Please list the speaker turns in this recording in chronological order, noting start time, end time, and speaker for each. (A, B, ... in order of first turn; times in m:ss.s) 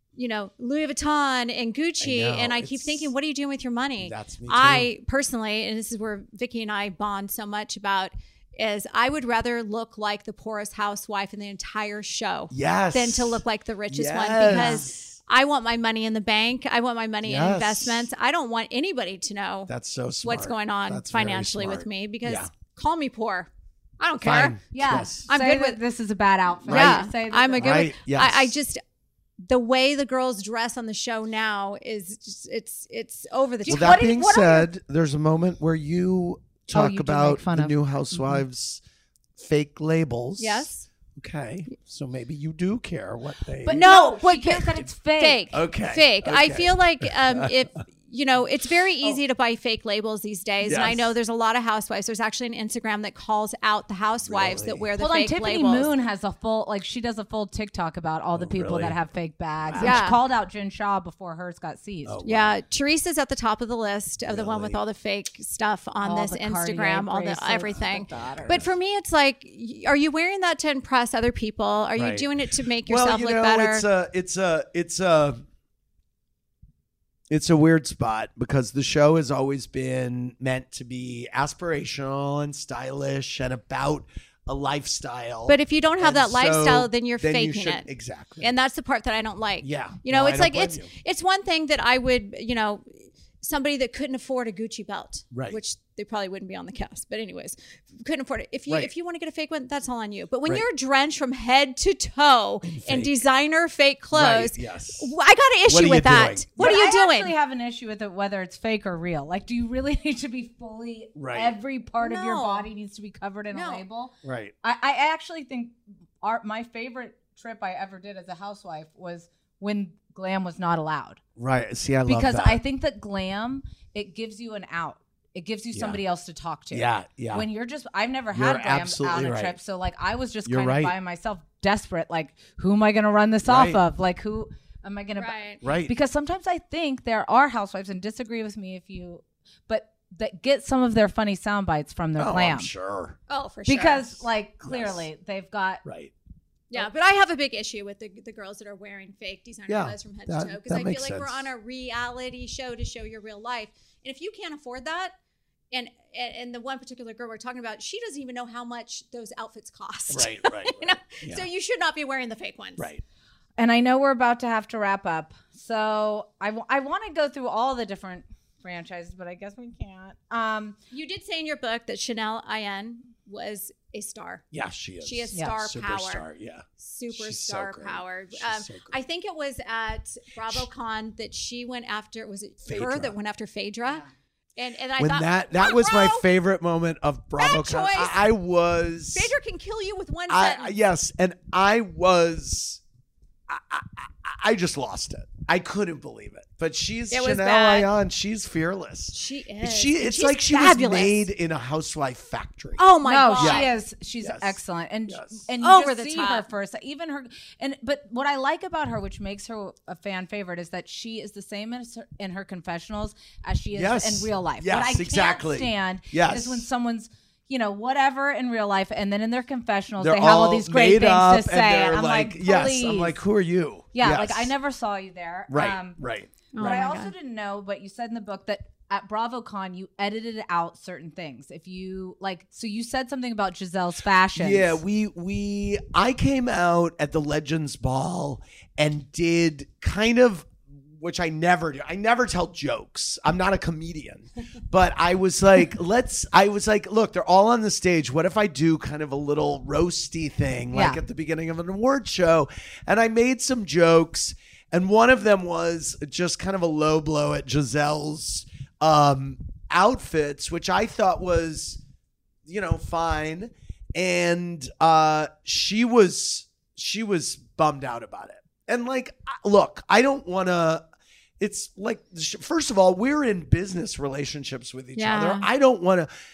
0:00.2-0:19.7 A
0:02.0-0:03.1 B
0:04.0-0:04.9 B
0:12.5-0:15.1 B
0:14.4-0:14.9 C
0:17.2-0:18.1 B
0:19.7-0:22.5 B
0:20.2-0:25.8 A
0:24.2-0:25.3 B
0:24.7-0:27.9 C
0:26.6-0:28.8 A
0:26.7-0:27.0 B
0:27.6-0:28.5 B
0:29.4-0:34.0 A
0:33.6-0:34.7 C
0:33.7-0:38.8 B
0:36.7-0:38.4 C
0:39.4-0:43.9 B
0:40.4-0:40.9 A
0:43.6-0:45.5 C
0:43.7-0:55.9 A
0:45.5-0:47.5 B
0:50.6-0:51.1 B
0:54.2-0:54.8 B
0:55.0-1:02.2 C
0:58.3-0:59.0 B
0:59.6-1:00.0 B
0:59.8-1:00.2 A
1:02.0-1:02.6 B
1:02.2-1:13.8 A
1:04.3-1:04.8 B
1:06.0-1:08.6 C
1:08.4-1:08.7 B
1:12.0-1:12.2 B
1:12.9-1:15.4 B
1:17.3-1:28.5 B
1:25.5-1:27.9 A
1:28.4-1:47.3 A
1:29.6-1:30.9 B
1:35.3-1:35.6 B
1:42.6-1:43.2 B
1:44.1-1:45.1 B
1:45.7-1:46.5 B
1:46.6-2:01.2 C
1:51.1-1:51.5 B
1:52.0-1:52.7 A
1:53.5-1:53.8 A
1:54.2-1:54.5 B
2:01.4-2:02.6 B
2:02.0-2:22.7 C
2:05.7-2:06.0 B
2:06.7-2:07.4 B
2:08.3-2:09.6 B
2:10.4-2:10.9 B
2:13.4-2:13.8 B
2:15.2-2:15.6 A
2:15.6-2:15.9 B
2:22.2-2:23.2 B
2:23.3-2:24.2 A
2:23.6-2:25.8 C
2:24.6-2:25.0 B
2:25.8-2:26.1 B
2:26.7-2:35.1 A
2:29.7-2:31.5 B
2:35.7-2:42.9 A
2:40.1-2:41.4 B
2:42.8-2:43.0 B
2:43.6-2:50.8 C
2:50.9-2:54.4 A
2:54.5-2:59.0 B
2:55.0-2:56.2 A
2:56.8-3:04.0 A
3:02.6-3:03.2 B
3:04.6-3:06.3 A
3:05.0-3:09.3 B
3:07.4-3:08.2 A
3:09.1-3:10.7 A
3:10.3-3:12.8 B
3:13.5-3:22.8 B
3:17.1-3:17.9 A
3:19.1-3:21.3 A
3:22.8-3:23.7 A
3:23.0-3:43.2 C
3:23.4-3:23.7 B
3:24.2-3:25.4 B
3:25.6-3:26.4 A
3:33.7-3:36.7 B
3:40.0-3:44.5 B
3:43.9-3:46.0 C
3:45.5-3:46.8 B
3:46.5-3:47.1 A
3:46.6-3:54.8 C
3:54.4-4:21.8 B
4:10.7-4:11.0 C
4:22.4-4:30.8 B
4:31.4-4:36.1 B
4:35.0-4:35.5 A